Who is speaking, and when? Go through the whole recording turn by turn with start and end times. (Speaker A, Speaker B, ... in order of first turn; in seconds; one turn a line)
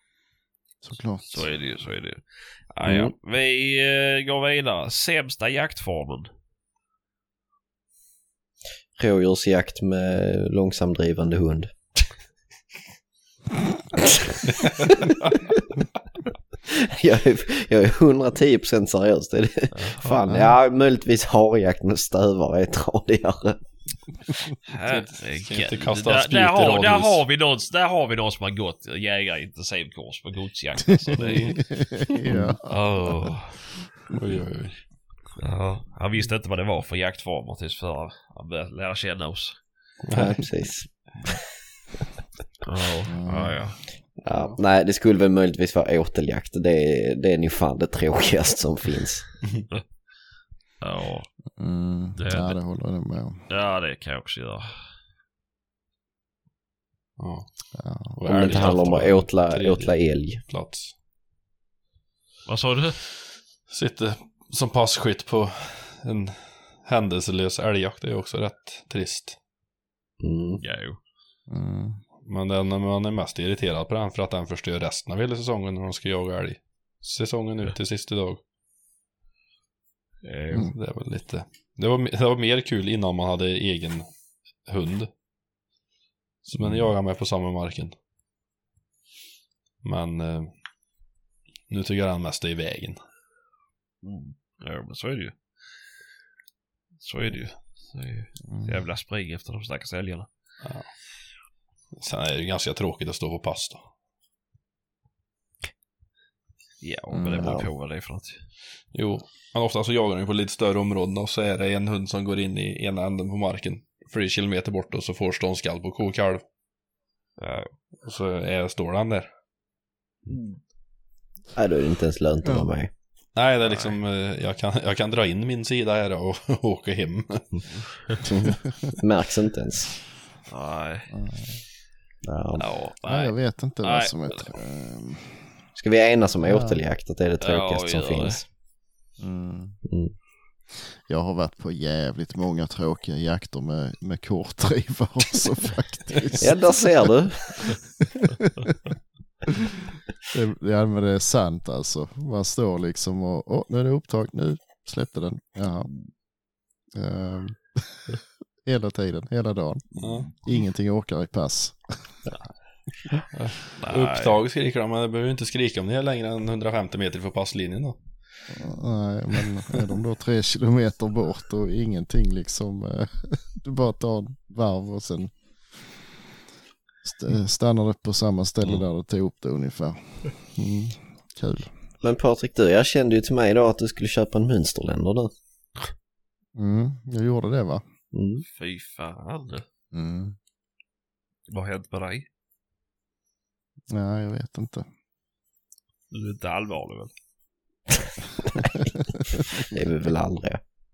Speaker A: 0.8-1.5
Speaker B: 1.3-6.3
Speaker C: 2.8-3.1
Speaker C: 9.0-11.7
Speaker C: 14.4-15.2
Speaker C: 16.6-23.6
Speaker B: 19.7-20.2
Speaker A: 20.3-20.5
Speaker B: 24.6-31.8
Speaker D: 24.9-27.2
Speaker D: 31.1-31.6
Speaker A: 31.6-32.8
Speaker C: 32.2-32.6
Speaker B: 32.6-33.8
Speaker D: 34.1-35.1
Speaker B: 35.4-39.6
Speaker D: 40.0-40.4
Speaker C: 40.1-41.4
Speaker B: 42.6-44.5
Speaker A: 43.0-43.9
Speaker C: 44.2-49.4
Speaker B: 50.8-51.6
Speaker A: 51.5-53.5
Speaker B: 52.1-52.6
Speaker B: 53.5-54.9
Speaker D: 57.2-60.9
Speaker A: 57.7-58.2
Speaker C: 58.2-60.4
Speaker B: 58.4-59.0
Speaker B: 62.5-63.0
Speaker D: 63.7-69.4
Speaker C: 70.2-70.6
Speaker B: 70.6-71.0
Speaker A: 71.5-72.0
Speaker D: 72.2-78.4
Speaker B: 80.2-80.7
Speaker D: 80.7-85.1
Speaker D: 86.4-87.9
Speaker A: 86.6-86.9
Speaker D: 89.8-90.6
Speaker D: 91.7-93.0
Speaker B: 94.0-95.6
Speaker B: 97.0-100.3
Speaker A: 98.5-98.8
Speaker D: 100.6-103.8
Speaker B: 106.8-108.5
Speaker A: 107.1-107.6
Speaker C: 107.4-107.7
Speaker D: 108.9-116.4
Speaker B: 117.4-117.7
Speaker D: 118.0-119.3
Speaker B: 120.3-120.6
Speaker C: 121.5-122.9
Speaker D: 123.3-128.2
Speaker B: 123.6-124.0
Speaker C: 128.2-130.1
Speaker B: 130.5-131.1
Speaker A: 131.1-131.6
Speaker C: 132.2-132.7
Speaker B: 132.6-134.6
Speaker A: 133.0-135.7
Speaker C: 135.7-138.5
Speaker A: 136.4-136.8
Speaker B: 137.4-138.4
Speaker A: 139.2-139.8
Speaker C: 139.8-140.1
Speaker A: 140.7-147.1
Speaker C: 146.4-147.8
Speaker A: 150.3-156.3
Speaker A: 156.9-162.3
Speaker D: 160.0-160.3
Speaker D: 163.3-168.5
Speaker B: 163.8-164.4
Speaker A: 168.5-176.1
Speaker A: 177.0-181.7
Speaker C: 182.0-185.3
Speaker A: 186.5-187.8
Speaker C: 188.1-188.4
Speaker B: 188.5-189.6
Speaker A: 189.9-190.4
Speaker B: 191.5-192.2
Speaker A: 193.9-194.8
Speaker B: 196.1-197.1
Speaker C: 199.6-200.6